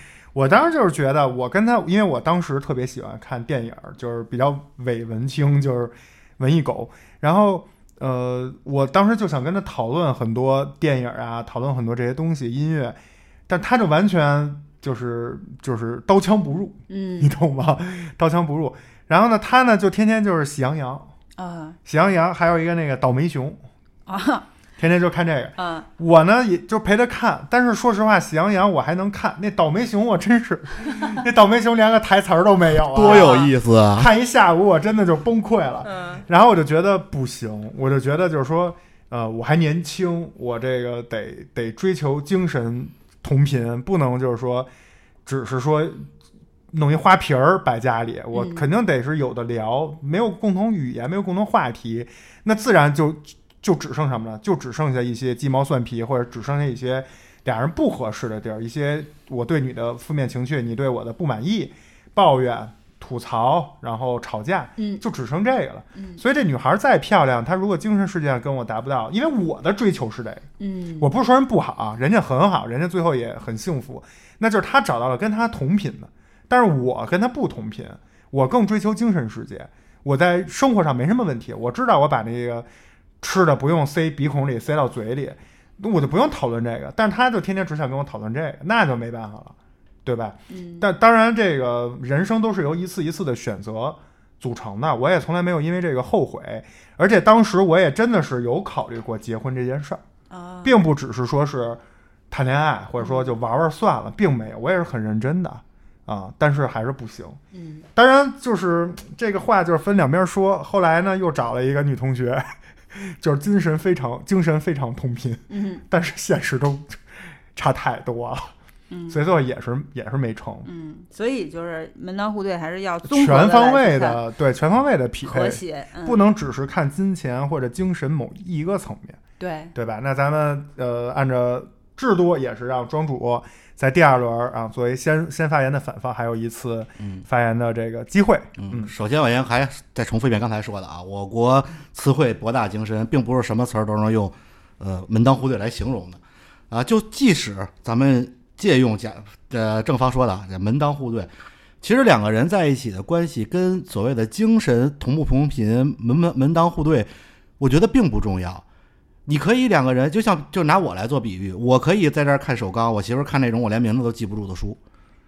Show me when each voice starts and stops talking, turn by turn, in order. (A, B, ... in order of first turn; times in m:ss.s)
0:00.3-0:21.1 A
0:16.9-0:17.3 B
0:21.4-0:21.8 B
0:21.8-0:23.6 A
0:24.1-0:24.5 B
0:24.8-0:44.7 A
0:25.6-0:25.8 B
0:32.9-0:34.1 C
0:33.1-0:33.5 B
0:35.9-0:36.2 B
0:45.2-0:46.1 A
0:46.7-1:10.4 A
0:48.3-0:48.6 B
1:04.8-1:05.0 B
1:06.0-1:06.2 B
1:10.6-1:11.1 B
1:11.0-1:22.7 A
1:23.2-1:40.0 A
1:30.5-1:30.9 B
1:40.3-1:40.7 B
1:40.6-1:47.4 A
1:43.0-1:43.3 B
1:47.5-1:47.8 B
1:47.9-1:57.0 A
1:55.5-1:55.8 B
1:57.5-1:58.5 A
1:58.9-1:59.2 B
1:59.1-2:00.7 A
2:00.6-2:04.2 B
2:03.0-2:09.2 A
2:05.2-2:06.2 B
2:09.4-2:09.7 B
2:09.7-2:18.9 A
2:18.6-2:26.2 C
2:26.7-2:31.3 C
2:31.8-2:37.1 C
2:37.6-2:38.6 C
2:39.2-2:44.8 C